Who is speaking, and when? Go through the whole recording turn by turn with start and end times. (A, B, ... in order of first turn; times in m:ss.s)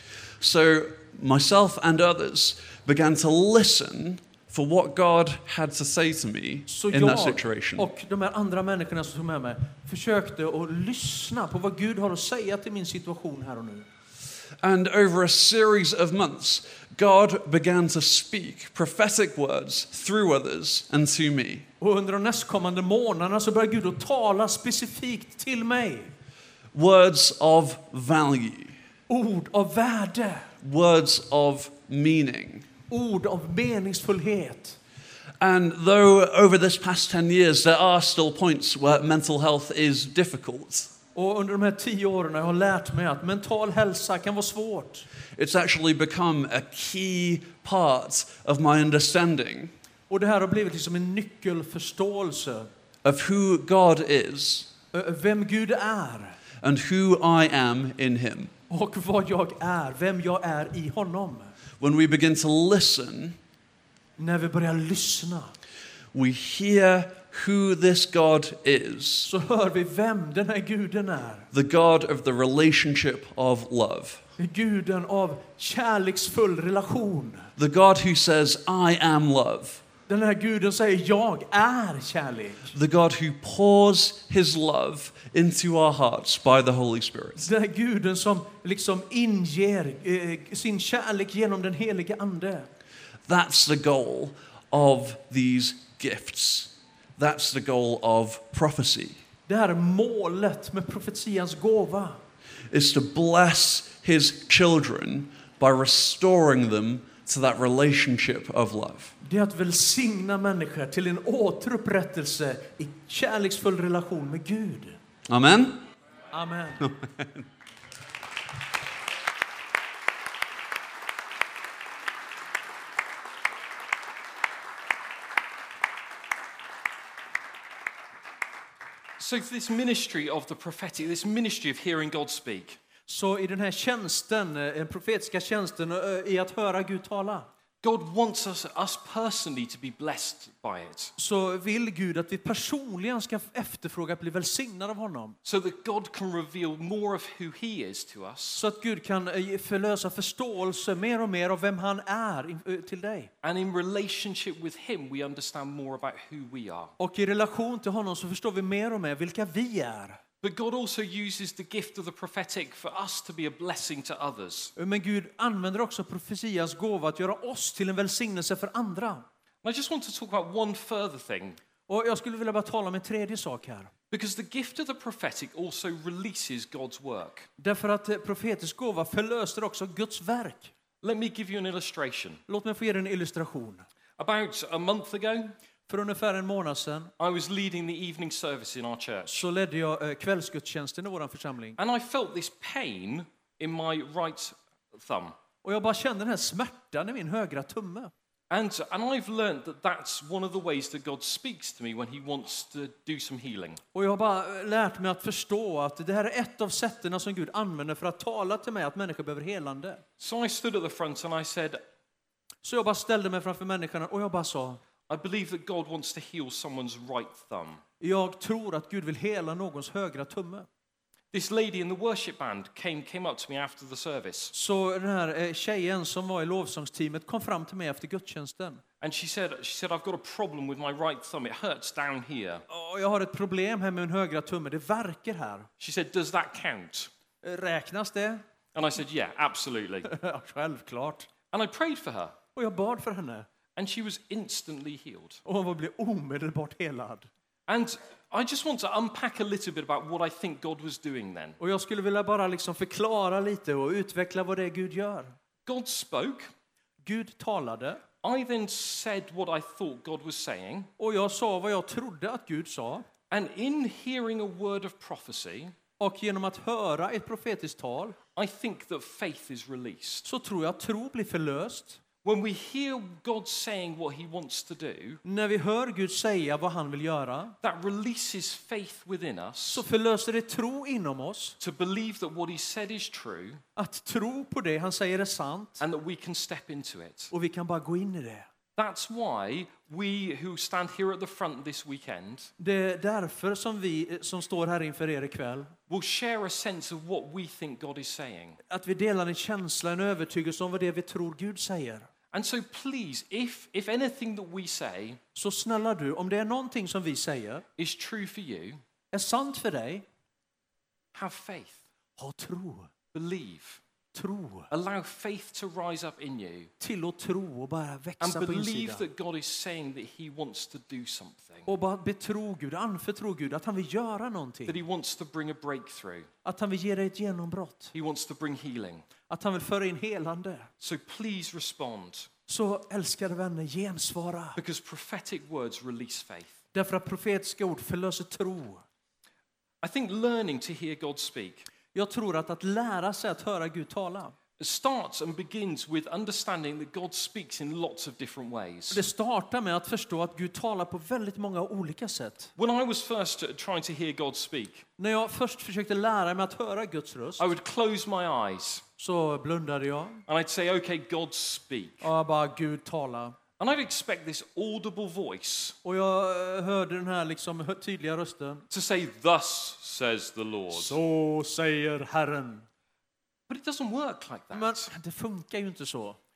0:00.4-0:07.9 A
0:06.7-0:13.9 B
0:14.6-0:21.7 A
0:21.8-0:26.1 B
0:26.7-0:28.8 A
0:29.1-0:30.5 B
0:30.6-0:32.7 A
0:32.9-0:34.8 B
0:35.4-0:40.9 A
0:41.1-0:45.0 B
0:45.4-0:49.7 A
0:50.1-0:52.7 B
0:53.0-0:54.7 A
0:54.9-0:56.4 B
0:56.6-0:58.5 A
0:58.7-1:01.5 B
1:01.8-1:03.4 A
1:04.2-1:05.5 B
1:06.1-1:09.3 A
1:09.2-1:11.5 B
1:11.5-1:14.2 A
1:14.4-1:17.5 B
1:17.6-1:19.8 A
1:20.1-1:22.7 B
1:22.7-1:27.5 A
1:27.4-1:32.7 B
1:33.2-1:39.2 A
1:39.5-1:42.2 B
1:42.7-1:49.1 A
1:49.2-1:55.0 B
1:55.3-1:55.8 A
1:56.3-1:56.9 B
1:56.9-1:57.4 A
2:09.2-2:12.8 C
2:13.1-2:17.5 B
2:17.8-2:21.1 C
2:21.2-2:25.4 B
2:25.4-2:28.6 C
2:28.5-2:33.3 B
2:33.4-2:36.9 C
2:37.0-2:40.2 B
2:40.4-2:44.7 C
2:44.8-2:49.2 B
2:49.6-2:51.6 C
2:51.9-2:53.9 B
2:54.1-2:57.5 C
2:57.6-3:00.7 B
3:01.0-3:02.4 C
3:02.5-3:03.8 B
3:04.2-3:05.5 C
3:05.9-3:07.1 B
3:07.2-3:09.4 C
3:09.3-3:11.8 B
3:11.8-3:15.4 C
3:15.6-3:18.1 B
3:18.5-3:23.8 C
3:23.9-3:30.0 B
3:30.2-3:31.8 C
3:32.6-3:34.8 B
3:35.1-3:37.8 C
3:38.0-3:40.7 B
3:41.3-3:44.5 C
3:44.5-3:48.8 B
3:49.0-3:52.6 C
3:52.7-3:55.7 B
3:55.8-3:57.1 C
3:57.4-3:58.4 B
3:58.7-4:00.1 C
4:00.0-4:01.3 B
4:01.5-4:02.4 C
4:02.5-4:03.5 B
4:03.8-4:05.4 C
4:05.4-4:07.3 B
4:07.7-4:11.6 C
4:11.6-4:15.3 B
4:15.6-4:16.5 C
4:17.0-4:18.0 B
4:18.2-4:20.9 C
4:21.0-4:23.0 B
4:23.3-4:25.7 C
4:26.0-4:28.2 B
4:28.4-4:30.2 C
4:30.2-4:32.0 B
4:32.2-4:35.2 C
4:35.2-4:37.6 B
4:37.6-4:39.8 C
4:39.7-4:41.6 B
4:41.6-4:43.6 C
4:43.8-4:45.8 B
4:45.8-4:47.3 C
4:47.3-4:48.5 B
4:48.8-4:52.5 C
4:52.6-4:55.7 B
4:55.9-4:58.6 C
4:58.7-5:02.1 B
5:02.3-5:05.2 C
5:05.3-5:07.6 B
5:07.8-5:08.8 C
5:09.1-5:10.0 B
5:11.1-5:11.8 C
5:12.2-5:12.9 B
5:13.1-5:13.8 C
5:14.1-5:14.7 B
5:14.7-5:16.7 C
5:16.8-5:19.0 B
5:18.2-5:21.7 C
5:21.6-5:24.8 B
5:24.7-5:26.3 C
5:26.4-5:27.9 B
5:27.9-5:29.0 C
5:29.3-5:30.7 B
5:30.8-5:32.3 C
5:32.5-5:34.6 B
5:34.6-5:36.6 C
5:36.7-5:38.8 B
5:39.8-5:41.7 C
5:41.9-5:44.3 B
5:44.6-5:49.0 C
5:48.9-5:52.5 B
5:52.6-5:54.9 C
5:55.0-5:57.5 B
5:57.4-5:58.8 C
5:59.0-6:00.2 B
6:00.3-6:02.1 C
6:02.0-6:03.4 B
6:03.6-6:05.8 C
6:05.8-6:08.6 B
6:08.7-6:11.0 C
6:10.7-6:12.7 B
6:13.5-6:14.9 C
6:14.5-6:16.2 B